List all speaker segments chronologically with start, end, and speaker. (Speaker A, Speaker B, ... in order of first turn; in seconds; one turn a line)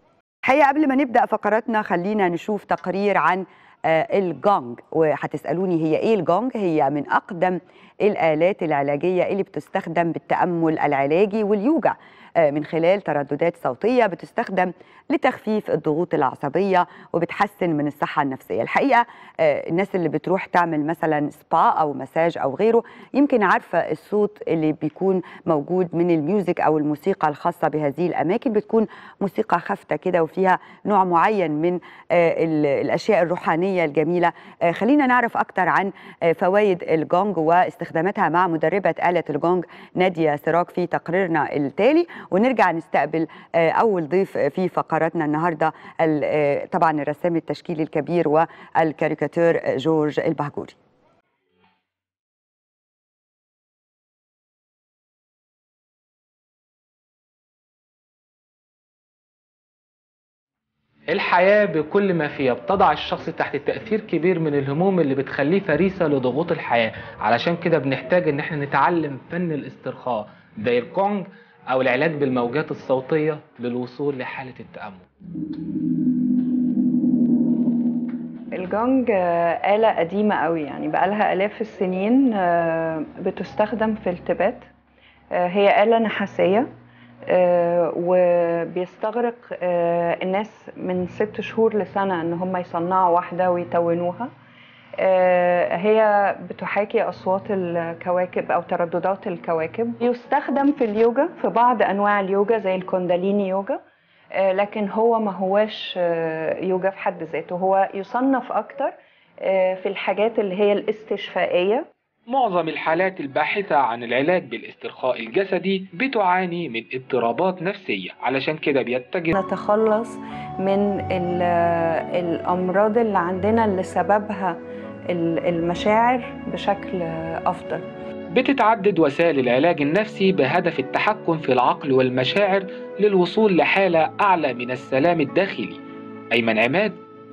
Speaker A: 0.4-50.7
Speaker B: 61.1-75.0
Speaker C: 78.5-84.7
Speaker C: 85.3-86.7
Speaker C: 87.2-94.3
Speaker C: 95.0-103.8
Speaker C: 104.3-111.9
Speaker B: 112.3-119.3
Speaker C: 119.3-124.6
Speaker C: 125.1-127.8
Speaker B: 128.3-135.8
Speaker B: 136.3-137.0